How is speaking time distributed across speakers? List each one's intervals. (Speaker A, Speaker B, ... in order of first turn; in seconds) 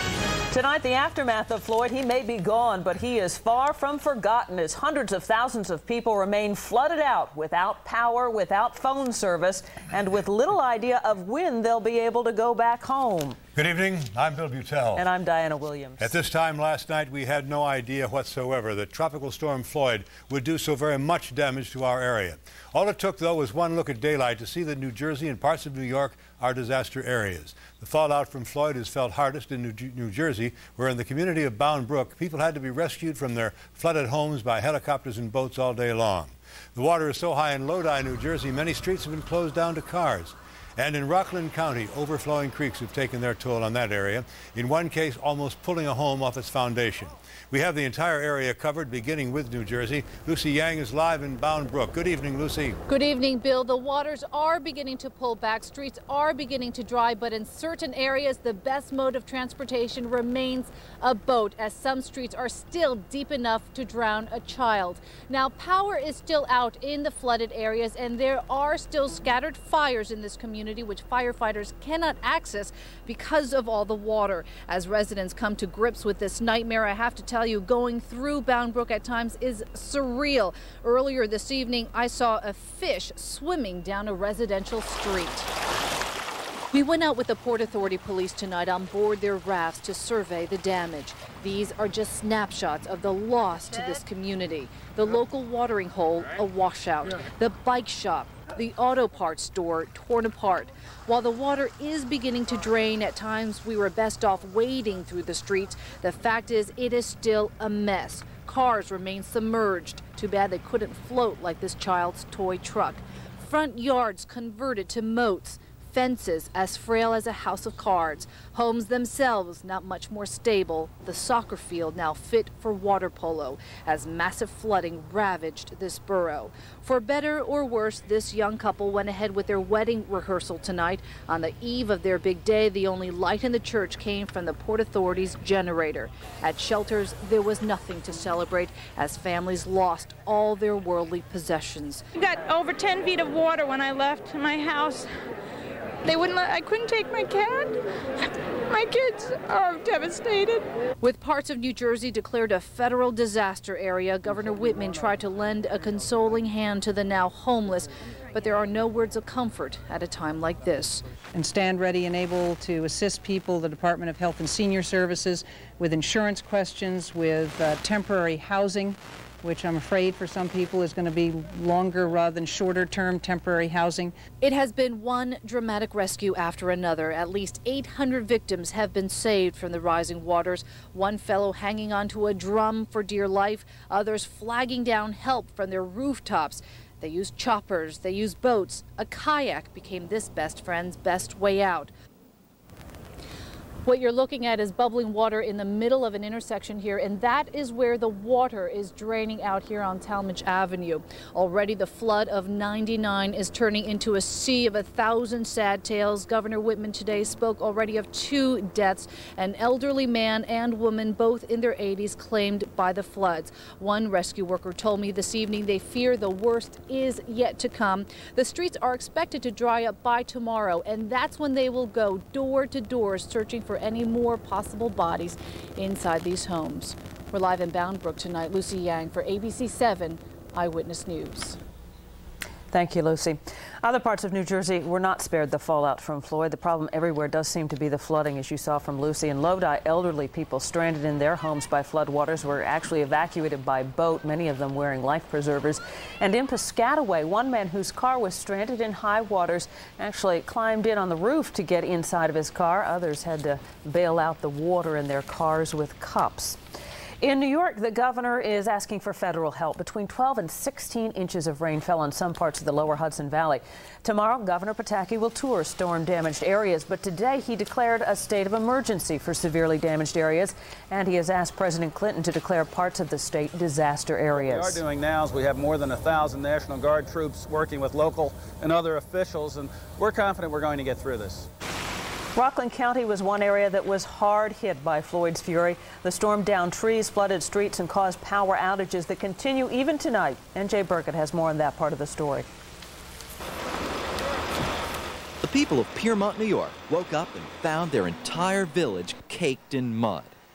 Speaker A: 0.5-13.4, 14.9-16.1, 232.7-256.6, 257.2-274.8, 282.4-292.5
Speaker B: 13.6-15.1, 16.0-52.8
Speaker C: 52.9-85.5, 86.7-142.0, 151.0-161.1, 174.4-191.9, 193.8-231.6
Speaker D: 142.2-145.1, 146.1-147.7, 148.7-150.6
Speaker E: 161.3-174.2
Speaker F: 274.3-281.5
Speaker G: 295.4-300.4